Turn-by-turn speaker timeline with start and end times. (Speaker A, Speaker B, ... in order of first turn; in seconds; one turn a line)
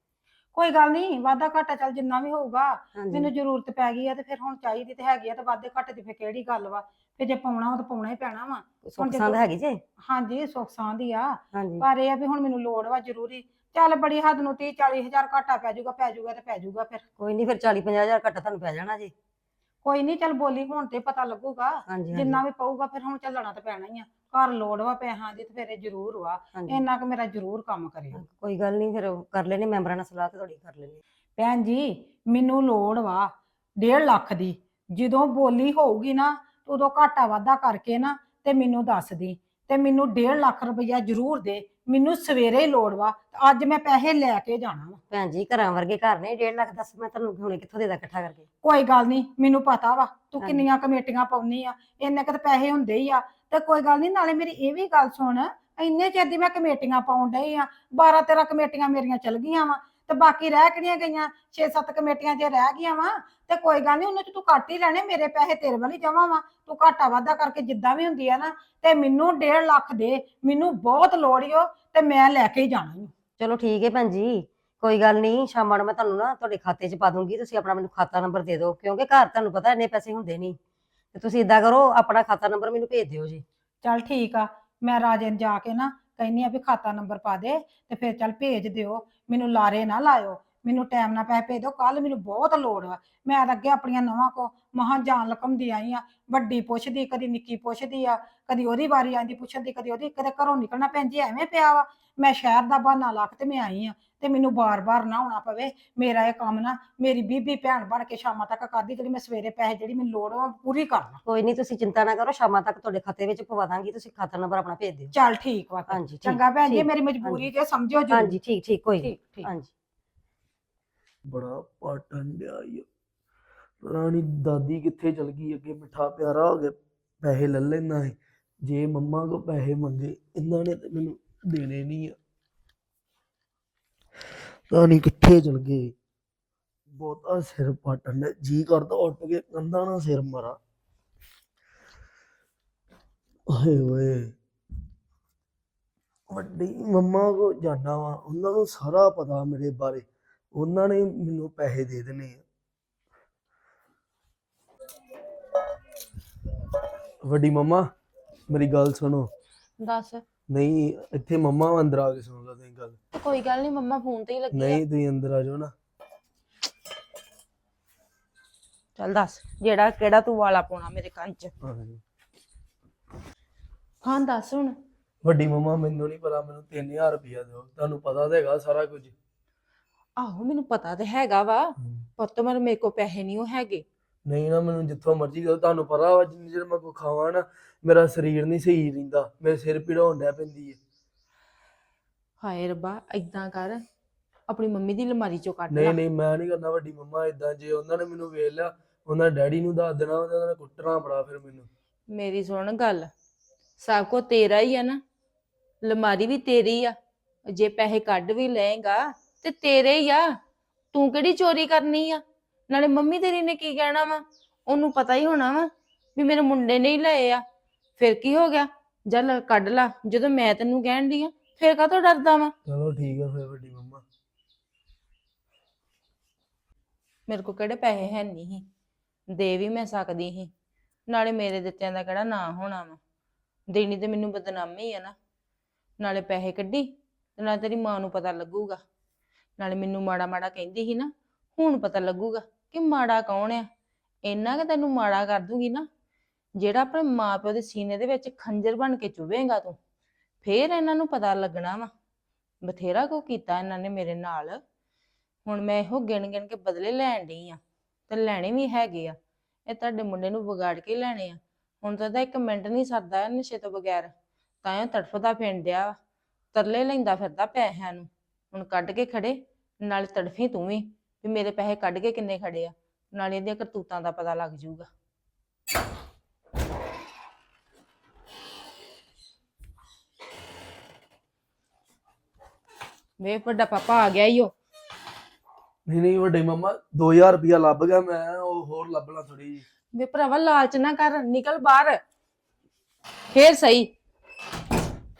Speaker A: 0.5-17.0
Speaker B: 3.0-3.3
Speaker B: 8.8-9.8
Speaker B: 11.5-11.8
Speaker B: 17.2-19.1
Speaker A: 19.8-28.2
Speaker B: 21.9-22.4
Speaker B: 26.6-26.8
Speaker B: 28.2-31.0
Speaker A: 31.4-45.0
Speaker B: 45.1-48.4
Speaker A: 48.6-73.1
Speaker B: 73.4-80.6
Speaker B: 81.1-83.4
Speaker A: 83.8-111.2
Speaker B: 111.3-115.1
Speaker A: 115.1-118.4
Speaker B: 115.9-117.5
Speaker B: 118.1-119.7
Speaker A: 119.0-119.5
Speaker C: 121.2-122.8
Speaker C: 123.8-132.2
Speaker C: 134.7-135.9
Speaker C: 136.9-140.6
Speaker C: 143.5-144.3
Speaker C: 146.3-152.4
Speaker C: 157.2-157.9
Speaker C: 158.5-159.3
Speaker D: 159.8-160.2
Speaker C: 160.5-163.0
Speaker D: 163.2-164.8
Speaker C: 164.5-165.7
Speaker D: 169.0-171.5
Speaker C: 171.6-172.0
Speaker D: 174.0-174.8
Speaker C: 175.2-179.1
Speaker D: 180.2-183.8
Speaker C: 184.3-190.8
Speaker D: 192.4-193.8
Speaker D: 194.5-196.0
Speaker C: 195.7-201.7
Speaker D: 202.1-203.1
Speaker D: 203.8-205.0
Speaker D: 205.8-206.9
Speaker D: 207.5-210.3
Speaker D: 210.9-217.4
Speaker D: 218.0-222.5
Speaker C: 222.7-224.0
Speaker D: 227.3-228.7
Speaker D: 229.3-230.5
Speaker D: 231.1-233.0
Speaker D: 233.7-235.2
Speaker D: 236.0-238.8
Speaker D: 239.6-243.7
Speaker D: 244.2-245.9
Speaker D: 246.6-249.8
Speaker D: 250.4-251.9
Speaker D: 252.6-254.6
Speaker D: 255.5-259.2
Speaker D: 259.7-264.1
Speaker D: 264.6-266.0
Speaker D: 266.5-274.9
Speaker D: 283.2-284.5
Speaker C: 285.9-289.6
Speaker D: 289.9-292.0
Speaker D: 293.3-293.9